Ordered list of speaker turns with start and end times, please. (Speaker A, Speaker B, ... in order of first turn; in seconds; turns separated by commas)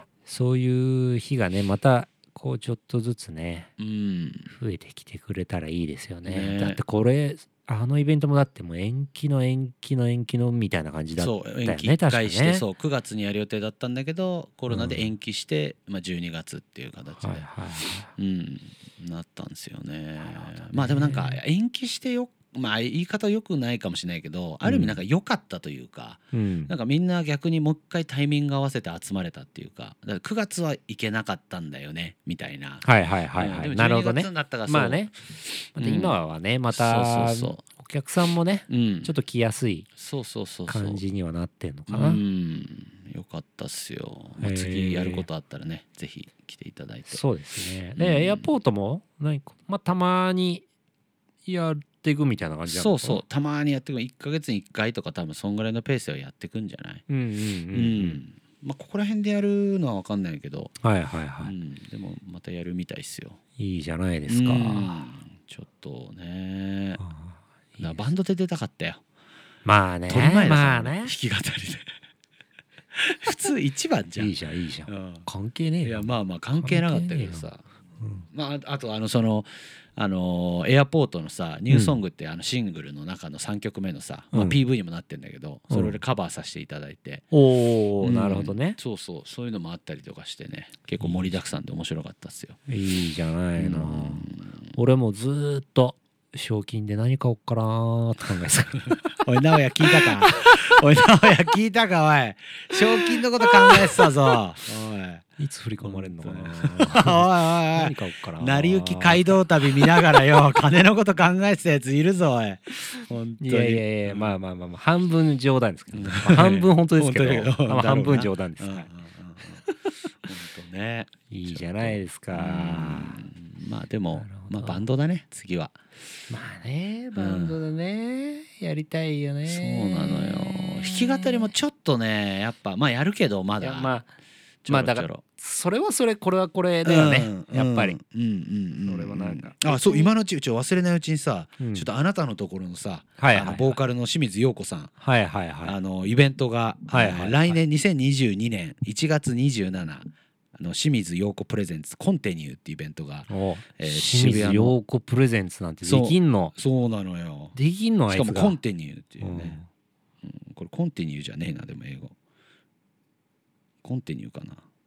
Speaker A: 0.3-3.7, Speaker B: 3.8-4.5, Speaker A: 4.5-12.7, Speaker B: 6.3-6.8, Speaker B: 11.2-17.5, Speaker A: 14.7-15.1, Speaker A: 17.2-18.1, Speaker B: 18.2-32.9, Speaker A: 20.2-21.4, Speaker A: 24.6-25.0, Speaker A: 26.3-26.7, Speaker A: 32.8-35.1, Speaker B: 33.4-35.0, Speaker B: 35.8-36.2, Speaker A: 35.8-39.9, Speaker B: 36.7-37.6, Speaker B: 38.7-39.1, Speaker B: 40.0-41.0, Speaker A: 40.7-42.2, Speaker B: 41.9-47.2, Speaker A: 44.4-45.3, Speaker A: 47.1-50.6, Speaker B: 48.0-48.5, Speaker A: 51.5-53.2, Speaker B: 52.7-57.1, Speaker A: 57.1-58.2, Speaker B: 57.7-60.8, Speaker A: 60.8-61.5, Speaker B: 61.4-63.4, Speaker A: 63.6-65.0, Speaker B: 64.3-67.0, Speaker A: 67.0-68.0, Speaker B: 67.8-69.0, Speaker A: 69.7-71.1, Speaker B: 70.1-71.9, Speaker B: 73.0-74.3, Speaker A: 74.2-77.5, Speaker B: 74.9-75.3, Speaker B: 75.8-77.6, Speaker A: 78.0-78.3, Speaker B: 78.3-87.2, Speaker A: 81.7-82.0, Speaker A: 84.3-84.6, Speaker A: 85.7-86.0, Speaker A: 87.3-88.8, Speaker B: 88.0-92.6, Speaker A: 91.0-91.3, Speaker A: 92.7-99.2, Speaker B: 93.6-94.6, Speaker B: 99.1-105.2, Speaker A: 99.8-100.6, Speaker A: 103.1-104.1, Speaker A: 105.4-110.3, Speaker B: 105.8-114.3, Speaker A: 113.0-118.9, Speaker B: 115.9-119.6, Speaker A: 119.6-119.9, Speaker B: 120.2-125.8, Speaker A: 121.3-123.2, Speaker A: 124.1-124.8, Speaker A: 126.3-131.5, Speaker B: 127.2-127.6, Speaker B: 129.5-133.9, Speaker A: 133.6-134.1, Speaker B: 134.6-135.2, Speaker A: 134.7-138.0, Speaker B: 136.8-144.9, Speaker A: 138.8-140.1, Speaker A: 141.6-141.9, Speaker A: 143.2-143.8, Speaker A: 145.0-145.8, Speaker B: 145.6-154.8, Speaker A: 146.9-147.6, Speaker A: 153.3-156.5, Speaker B: 155.8-157.6, Speaker A: 157.6-158.6, Speaker B: 158.1-159.6, Speaker A: 159.2-159.7, Speaker B: 160.2-162.2, Speaker B: 163.8-164.6